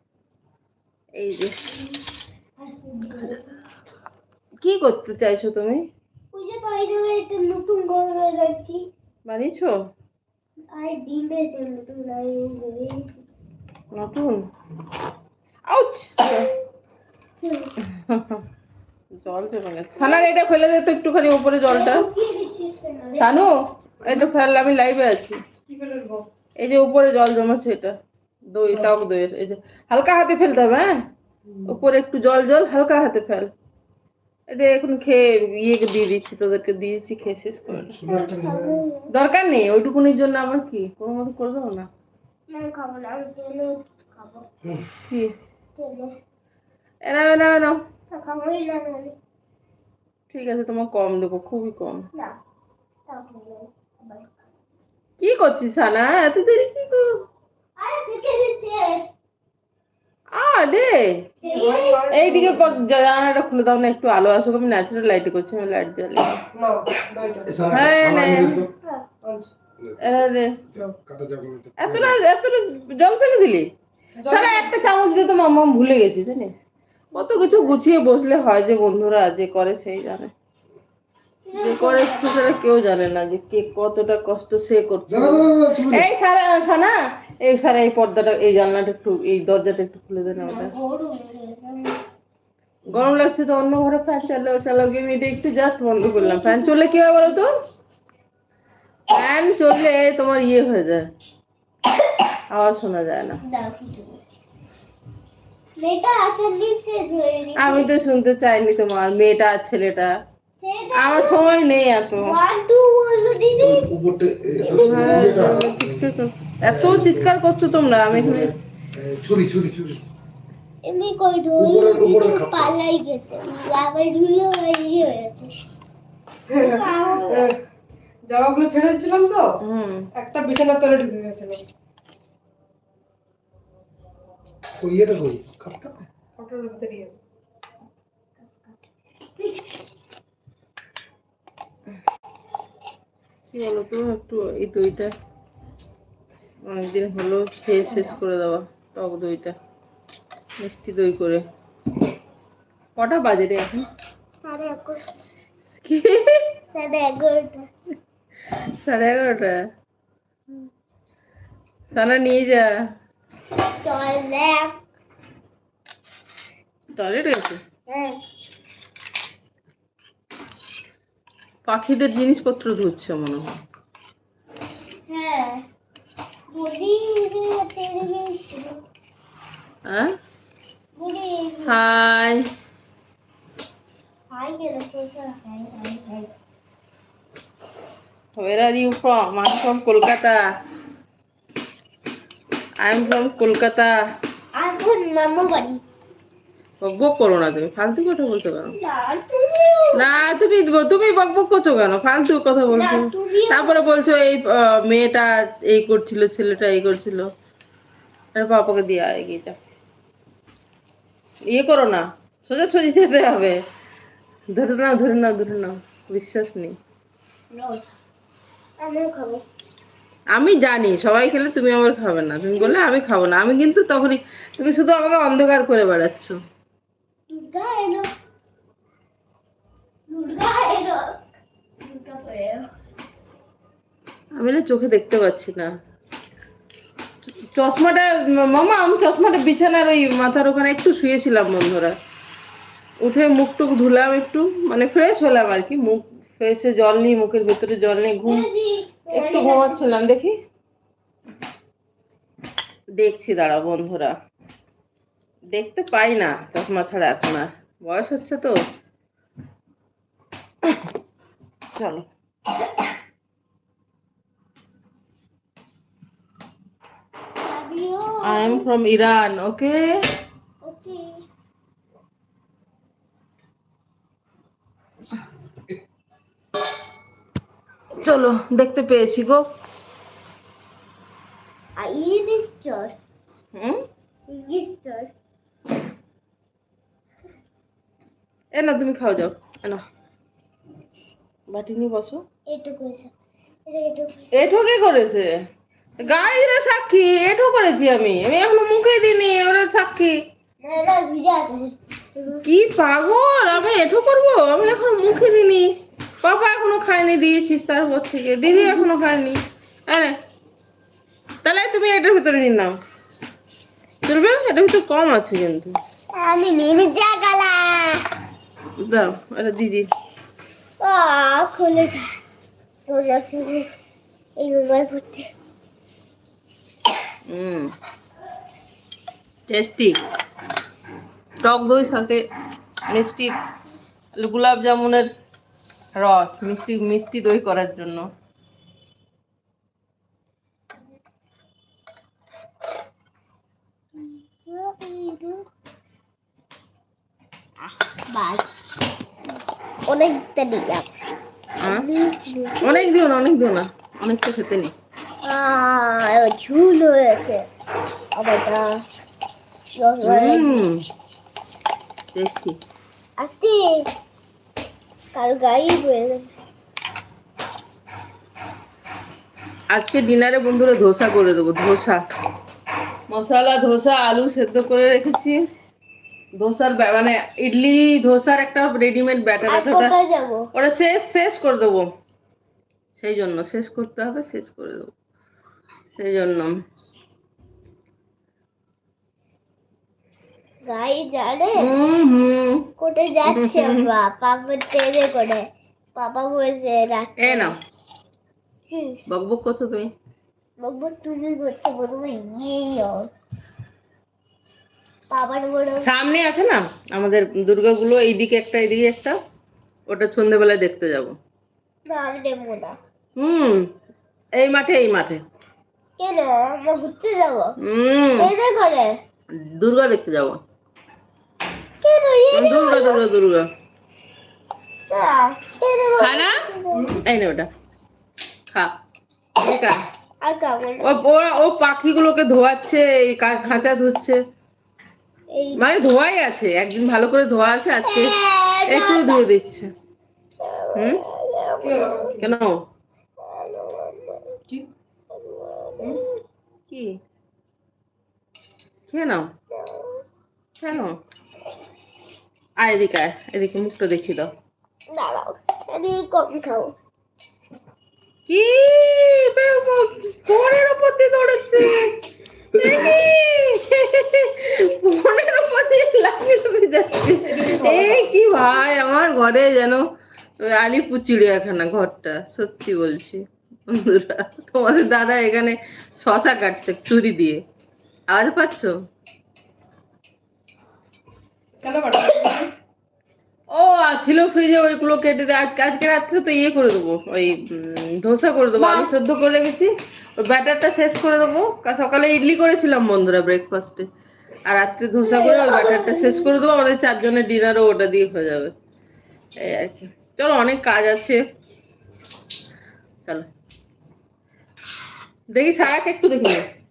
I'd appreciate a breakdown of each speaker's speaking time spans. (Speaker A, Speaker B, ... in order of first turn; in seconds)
Speaker A: 1.1-1.6, 4.6-5.8, 9.3-9.8, 13.9-14.4, 15.7-16.5, 17.9-18.4, 19.2-22.1, 23.2-25.4, 26.6-28.0, 28.5-30.9, 31.7-33.5, 34.5-38.0, 39.1-41.9, 47.0-47.8, 50.3-52.1, 55.2-57.1, 60.4-61.2, 62.1-66.4, 67.7-68.7, 70.0-70.5, 71.8-73.7, 74.3-76.5, 77.1-80.3, 81.6-90.7, 92.9-97.5, 99.1-101.1, 102.5-103.4, 107.6-110.1, 110.9-112.4, 114.8-118.5, 129.6-130.1, 143.5-145.1, 146.7-149.6, 150.6-151.4, 153.0-153.9, 155.8-156.4, 158.5-159.6, 161.9-162.7, 166.9-167.6, 171.7-173.5, 181.7-182.4, 188.4-190.4, 192.8-193.9, 196.8-198.7, 199.9-207.3, 208.3-209.6, 211.5-213.6, 214.5-216.8, 220.3-226.4, 234.3-235.7, 237.5-242.0, 243.0-248.5, 249.1-250.3, 253.0-254.2, 255.5-258.6, 261.7-262.1, 268.2-269.9, 278.0-279.4, 283.5-283.8, 288.5-289.8, 291.5-292.2, 294.3-295.3, 296.0-300.2, 302.4-305.7, 306.2-310.1, 311.4-312.7, 314.1-315.8, 318.8-319.9, 327.3-327.7, 329.5-330.0, 331.4-332.2, 332.9-333.4, 334.2-335.1, 336.0-338.1, 351.6-351.9, 352.6-354.7, 360.0-360.9, 362.1-362.6, 369.7-372.0, 373.1-375.4, 376.4-379.9, 380.5-381.9, 383.0-384.9, 386.0-386.5, 391.6-392.7, 393.3-393.9, 397.2-397.5, 399.1-399.9, 405.8-409.1, 409.9-411.2, 413.2-413.7, 414.4-415.2, 417.6-418.3, 419.4-420.4, 422.3-423.5, 426.0-426.4, 426.9-427.5, 429.4-429.8, 430.8-434.2, 435.6-438.1, 438.7-439.7, 440.8-441.0, 442.2-442.6, 446.7-447.0, 448.9-449.3, 450.6-451.0, 452.6-454.3, 458.3-462.0, 462.6-469.8, 470.4-477.4, 478.1-478.7, 483.5-493.9, 494.5-498.5, 499.4-501.2, 505.3-506.4
Speaker B: 2.6-3.5, 6.3-8.8, 10.7-13.2, 17.4-17.7, 20.0-20.3, 21.7-23.5, 38.1-39.1, 42.5-44.5, 45.8-46.1, 48.1-49.1, 53.1-54.3, 57.8-59.1, 61.4-62.0, 77.1-77.8, 81.5-82.6, 90.3-92.0, 96.2-97.5, 103.4-104.2, 105.8-107.9, 110.6-111.5, 112.2-113.9, 114.7-115.6, 120.8-125.5, 126.6-127.5, 154.4-155.0, 156.7-157.7, 163.8-164.8, 167.9-168.2, 175.1-175.6, 176.5-178.8, 181.0-181.8, 184.3-186.3, 194.6-195.8, 198.7-200.1, 202.7-203.8, 217.5-217.8, 218.8-219.4, 227.3-228.1, 230.1-231.0, 231.8-232.7, 248.2-249.9, 267.4-268.7, 270.6-271.2, 281.8-283.0, 284.3-285.1, 292.5-293.1, 293.7-294.4, 296.0-296.4, 300.6-302.4, 308.5-308.9, 316.2-318.1, 320.8-322.1, 322.9-323.7, 324.4-325.3, 344.0-345.4, 347.7-348.6, 349.9-350.9, 351.7-352.9, 355.2-357.4, 358.2-358.7, 359.8-360.7, 363.2-363.9, 365.1-366.3, 379.5-380.5, 390.7-391.7, 392.8-397.5, 398.7-399.0, 400.6-403.1, 405.1-405.9, 411.9-412.8, 416.0-417.5, 418.2-419.0, 421.8-423.0, 424.9-427.0, 430.2-430.9, 435.3-435.6, 437.8-439.2, 440.4-442.2, 443.2-444.4, 445.1-446.2, 449.5-450.0, 454.9-456.8, 488.6-489.0, 495.0-496.3
Speaker C: 25.7-26.3, 61.4-62.9, 66.5-67.6, 69.2-69.5, 74.2-74.7, 126.5-127.5, 128.3-129.5, 130.2-131.6, 136.4-137.2, 441.6-442.3, 467.2-468.1, 481.6-482.5
Speaker D: 37.7-38.8, 67.5-68.7, 70.7-72.2, 85.1-86.1, 113.6-116.1, 116.7-117.3, 118.1-120.0, 121.6-122.8, 134.8-135.9, 462.6-463.0